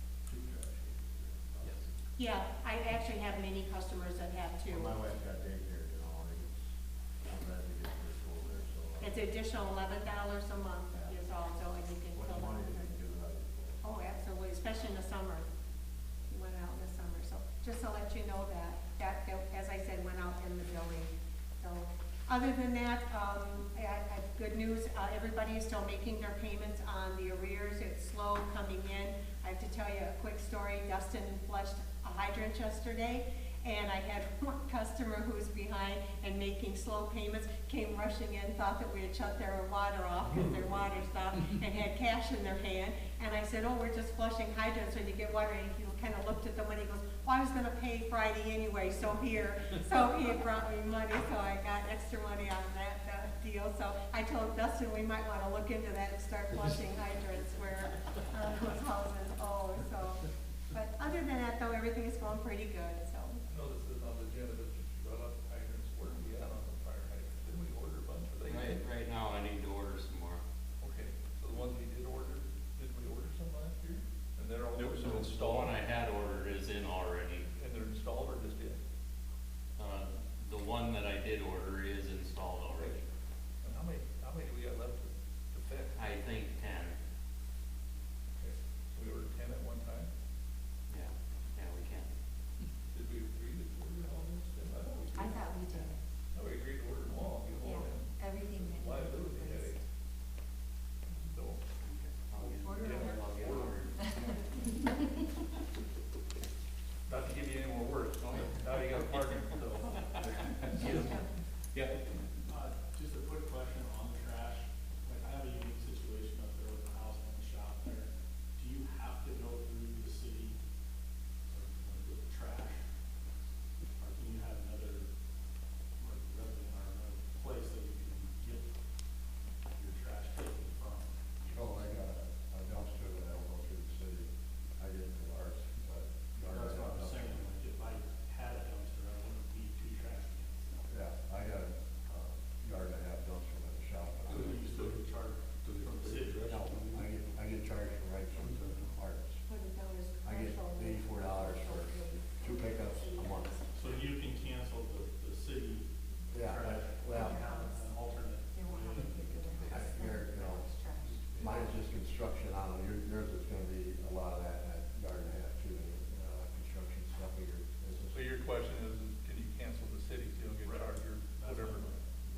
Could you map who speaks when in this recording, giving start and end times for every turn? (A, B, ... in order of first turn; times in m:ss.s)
0:00.3-0:02.0 A
0:02.2-0:04.9 B
0:04.7-0:06.7 A
0:07.2-0:09.2 A
0:09.0-0:12.9 B
0:12.1-0:13.8 A
0:13.8-0:15.4 B
0:16.3-1:03.4 B
1:03.5-1:08.9 C
1:08.4-1:10.4 D
1:10.8-1:15.8 C
1:15.3-1:17.4 D
1:17.5-1:18.8 C
1:19.8-1:23.0 D
1:23.6-1:25.9 C
1:25.9-1:27.0 D
1:28.4-1:30.1 C
1:30.9-1:32.1 D
1:32.9-1:35.8 C
1:35.1-1:36.0 E
1:36.3-1:39.8 C
1:37.6-1:39.8 E
1:41.3-1:41.6 C
1:41.8-1:44.0 D
1:42.4-1:44.4 C
1:42.5-1:44.4 E
1:47.1-1:51.2 C
1:48.3-1:49.1 D
1:50.2-1:50.7 D
1:52.5-2:00.6 F
2:01.5-2:02.8 F
2:04.0-2:05.1 F
2:06.0-2:08.7 F
2:09.7-2:11.9 F
2:11.5-2:17.5 A
2:16.5-2:20.8 F
2:20.9-2:25.0 A
2:24.3-2:26.6 F
2:26.5-2:29.4 A
2:29.5-2:33.6 B
2:30.2-2:33.6 A
2:33.7-2:39.7 F
2:36.3-2:37.4 A
2:37.1-2:41.4 E
2:39.6-2:40.6 A
2:41.3-2:41.5 C
2:41.4-2:48.2 A
2:48.1-2:51.9 C
2:50.6-2:52.0 F